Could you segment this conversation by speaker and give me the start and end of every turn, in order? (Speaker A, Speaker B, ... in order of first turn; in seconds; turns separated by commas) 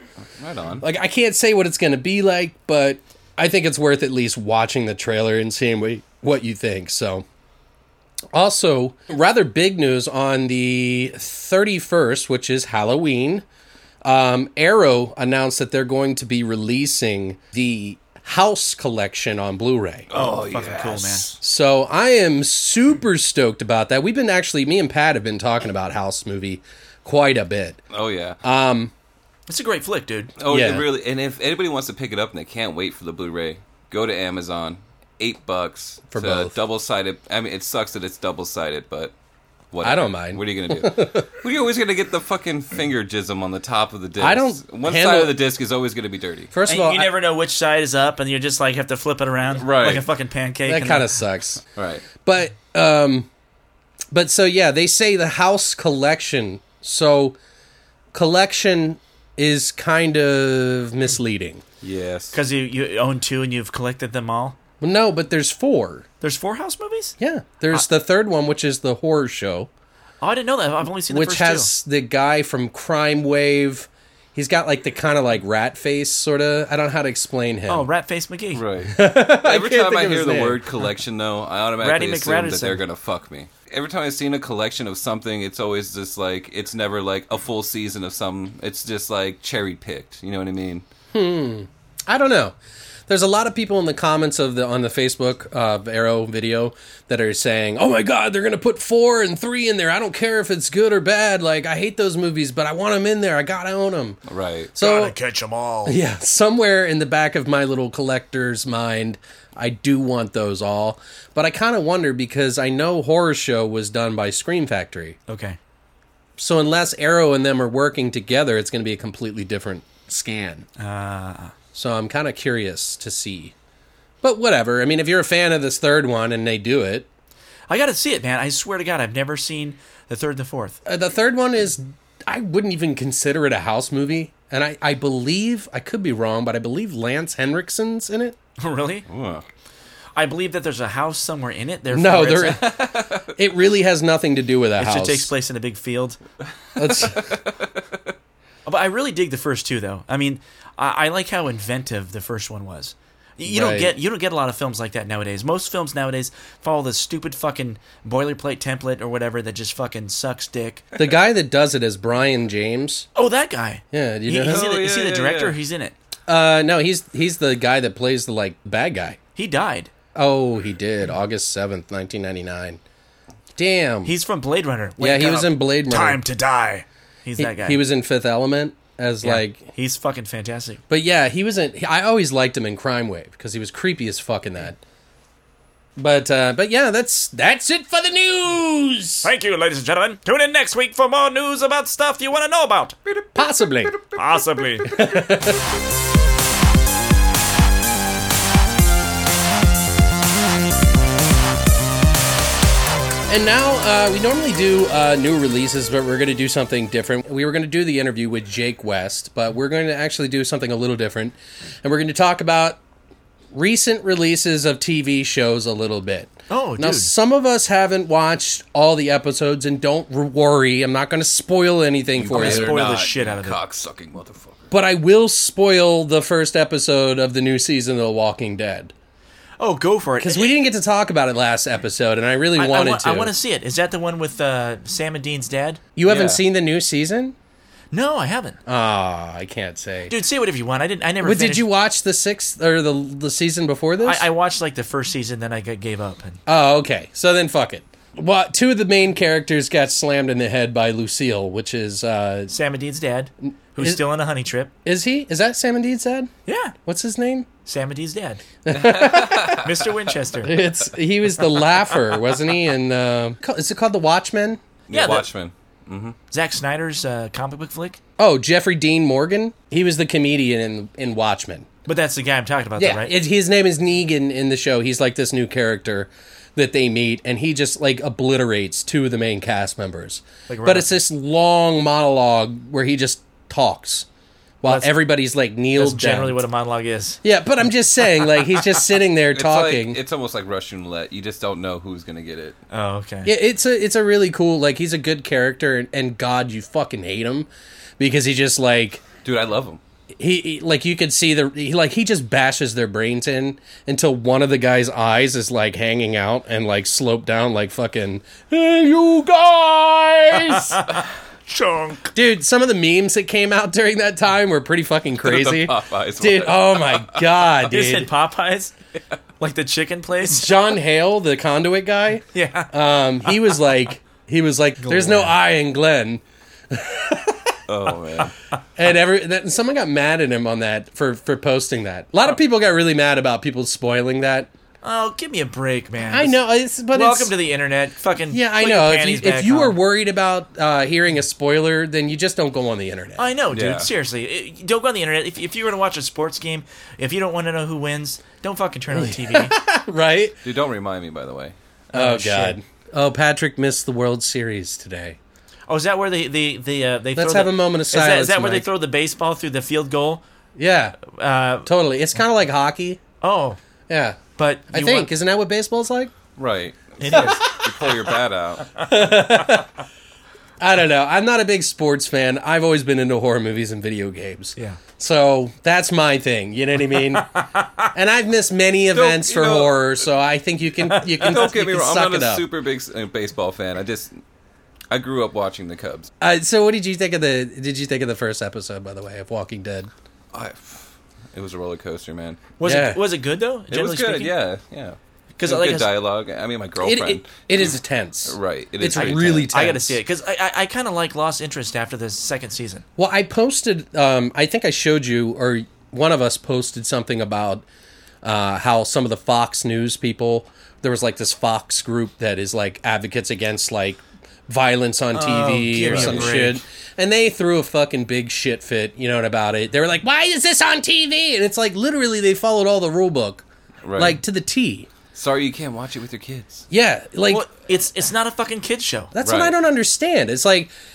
Speaker A: 0.4-0.8, Speaker B: 0.8-7.2, Speaker B: 8.3-13.4, Speaker B: 14.0-20.1, Speaker A: 20.1-21.3, Speaker C: 20.1-21.4, Speaker B: 21.4-27.8, Speaker A: 27.9-28.4, Speaker B: 28.4-28.9, Speaker C: 29.5-30.3, Speaker A: 30.4-39.1, Speaker B: 30.5-30.9, Speaker B: 36.1-36.5, Speaker A: 39.7-46.5, Speaker B: 39.8-41.3, Speaker B: 44.2-45.4, Speaker B: 46.5-47.1, Speaker C: 46.7-51.1, Speaker A: 49.6-50.1, Speaker B: 50.7-51.6, Speaker A: 51.8-52.1, Speaker B: 52.2-53.3, Speaker B: 54.1-57.4, Speaker B: 58.1-61.6, Speaker A: 61.8-62.4, Speaker C: 62.3-64.6, Speaker B: 64.8-66.1, Speaker C: 66.2-67.2, Speaker B: 67.2-69.7, Speaker C: 70.2-71.7, Speaker B: 71.1-77.9, Speaker C: 77.7-78.6, Speaker A: 78.5-90.8, Speaker B: 78.9-80.6, Speaker C: 81.8-82.8, Speaker B: 91.1-92.5, Speaker B: 93.1-104.2, Speaker A: 104.3-104.7, Speaker B: 104.8-105.2, Speaker C: 104.8-106.0, Speaker B: 105.9-115.2, Speaker C: 115.3-115.6, Speaker B: 116.4-120.7, Speaker C: 120.8-121.5, Speaker B: 121.7-123.5, Speaker B: 124.2-127.1, Speaker C: 127.7-130.8, Speaker B: 130.8-138.4, Speaker C: 138.6-139.1, Speaker A: 139.1-139.4, Speaker C: 140.2-142.6, Speaker B: 141.9-142.8, Speaker A: 142.6-143.3, Speaker B: 143.4-145.3, Speaker C: 144.8-146.2, Speaker B: 146.8-147.3, Speaker A: 146.8-147.7, Speaker C: 148.7-160.9, Speaker B: 153.5-153.9, Speaker B: 161.0-163.1, Speaker C: 163.2-165.9, Speaker B: 163.9-164.7, Speaker A: 164.4-165.6, Speaker B: 166.3-169.2, Speaker C: 169.4-169.9, Speaker B: 170.2-172.8, Speaker B: 173.6-174.1, Speaker C: 174.1-177.8, Speaker B: 175.0-176.2, Speaker B: 177.4-179.7, Speaker C: 179.2-180.8, Speaker B: 180.9-184.8, Speaker B: 186.0-189.3, Speaker C: 189.2-193.0, Speaker B: 193.3-194.0, Speaker C: 194.2-194.9, Speaker B: 194.9-195.6, Speaker B: 203.3-212.8, Speaker B: 213.5-222.8, Speaker C: 216.5-217.1, Speaker A: 222.2-224.6, Speaker C: 222.3-223.6, Speaker B: 224.7-228.9, Speaker C: 229.6-230.5, Speaker B: 230.2-233.3, Speaker C: 232.6-235.8, Speaker B: 236.0-237.3, Speaker A: 236.1-236.4, Speaker C: 237.9-238.6, Speaker B: 238.7-240.1, Speaker C: 240.1-241.7, Speaker B: 241.2-244.3, Speaker C: 244.0-246.4, Speaker B: 246.5-252.5, Speaker C: 252.5-254.7, Speaker B: 253.4-254.0, Speaker B: 254.8-256.3, Speaker C: 256.5-256.8, Speaker B: 256.9-257.5, Speaker C: 257.7-258.4, Speaker B: 258.6-259.7, Speaker A: 258.8-259.7, Speaker C: 259.6-260.6, Speaker B: 260.4-264.6, Speaker A: 264.9-266.2, Speaker C: 264.9-265.3, Speaker C: 266.3-268.0, Speaker B: 268.2-271.7, Speaker C: 271.9-273.1, Speaker B: 272.8-284.1, Speaker C: 280.5-280.9, Speaker B: 284.6-286.4, Speaker C: 285.8-287.2, Speaker B: 287.2-290.0, Speaker C: 288.2-288.6, Speaker A: 289.3-292.6, Speaker C: 292.7-293.3, Speaker B: 293.2-297.5, Speaker B: 298.0-299.1, Speaker A: 299.2-299.8, Speaker B: 300.2-310.8, Speaker C: 310.4-312.1, Speaker B: 312.1-318.1, Speaker A: 315.2-317.5, Speaker C: 317.7-318.7, Speaker C: 319.4-320.5, Speaker B: 320.3-327.6, Speaker C: 322.3-322.7, Speaker C: 324.8-325.4, Speaker A: 327.7-328.3, Speaker B: 328.8-334.5, Speaker C: 334.8-336.4, Speaker B: 336.1-337.3, Speaker C: 336.9-339.8, Speaker B: 338.3-343.3, Speaker C: 343.2-349.6, Speaker A: 343.5-343.9, Speaker B: 348.9-350.4, Speaker A: 350.4-351.5, Speaker C: 351.9-352.6, Speaker B: 351.9-355.2, Speaker C: 355.7-360.2, Speaker B: 357.1-358.7, Speaker B: 360.6-361.0, Speaker C: 361.0-361.7, Speaker B: 361.6-363.0, Speaker C: 363.2-363.6, Speaker B: 363.9-366.1, Speaker C: 364.4-365.1, Speaker A: 366.4-368.8, Speaker C: 367.0-367.5, Speaker B: 367.1-367.9, Speaker B: 368.8-369.7, Speaker B: 370.6-377.3, Speaker C: 377.1-377.9, Speaker B: 377.9-382.4, Speaker A: 378.9-380.0, Speaker C: 380.9-381.2, Speaker A: 381.2-384.2, Speaker A: 384.9-386.1, Speaker B: 386.2-389.9, Speaker A: 390.3-392.5, Speaker C: 392.6-394.3, Speaker B: 392.6-393.0, Speaker A: 393.7-397.8, Speaker C: 395.4-395.9, Speaker B: 396.8-400.0, Speaker A: 398.3-399.5, Speaker C: 398.9-402.9, Speaker B: 403.0-407.6, Speaker B: 408.2-423.4, Speaker C: 415.1-416.6, Speaker A: 415.9-416.3, Speaker A: 423.8-424.2, Speaker B: 424.0-424.9, Speaker A: 425.1-426.6, Speaker B: 426.7-427.4, Speaker C: 427.3-429.1, Speaker B: 429.1-430.7, Speaker A: 429.2-429.6